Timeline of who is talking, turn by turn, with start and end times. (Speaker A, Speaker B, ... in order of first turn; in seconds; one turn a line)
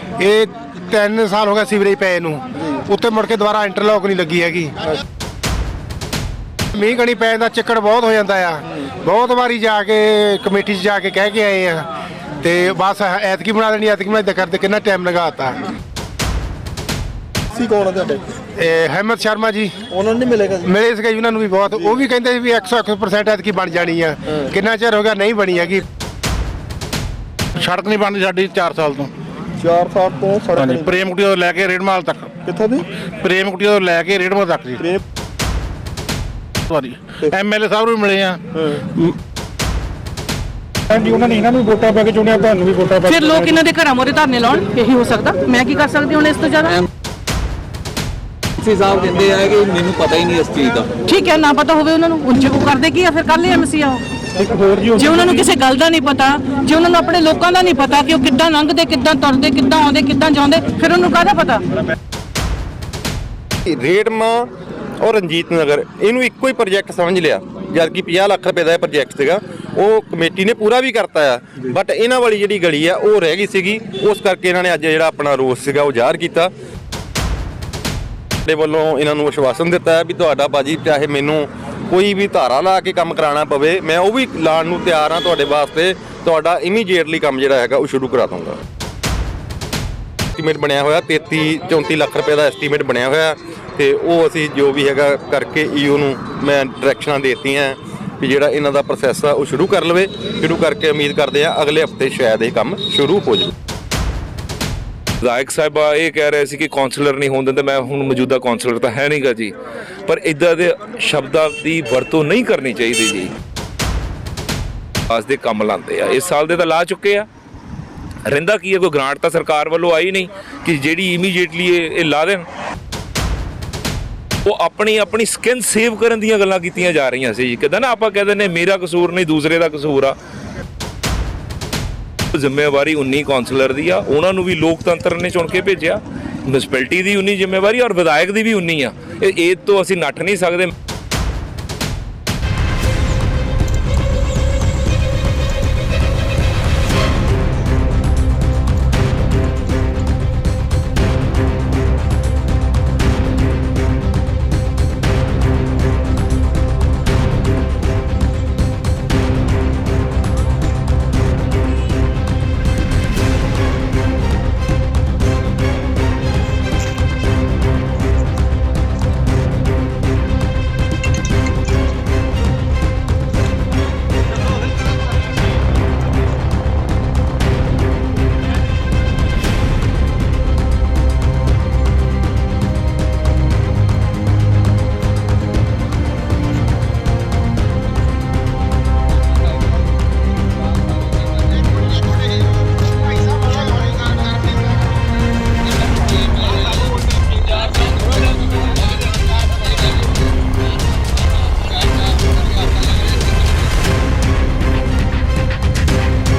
Speaker A: 0.2-4.7
Speaker B: 2.6-2.8
Speaker A: 6.7-11.9
Speaker A: 12.4-15.6
Speaker B: 17.5-18.2
Speaker A: 18.6-19.8
Speaker B: 19.9-20.7
Speaker A: 20.6-25.8
Speaker C: 27.6-29.1
Speaker B: 29.6-31.1
Speaker C: 30.6-32.3
Speaker B: 32.5-32.8
Speaker C: 33.2-34.8
Speaker C: 36.7-38.4
Speaker B: 38.5-38.8
Speaker D: 40.9-43.5
Speaker E: 43.1-46.7
Speaker F: 48.6-50.9
Speaker E: 51.0-54.0
Speaker D: 54.4-55.4
Speaker E: 54.9-61.6
Speaker G: 63.7-76.5
Speaker G: 78.5-88.6
Speaker G: 90.3-103.5
Speaker H: 105.2-109.5
Speaker H: 110.0-113.3
Speaker H: 115.1-117.2
Speaker H: 118.3-122.5
Speaker H: 124.4-130.2
Speaker H: 132.3-140.7
Speaker A: 191.9-194.7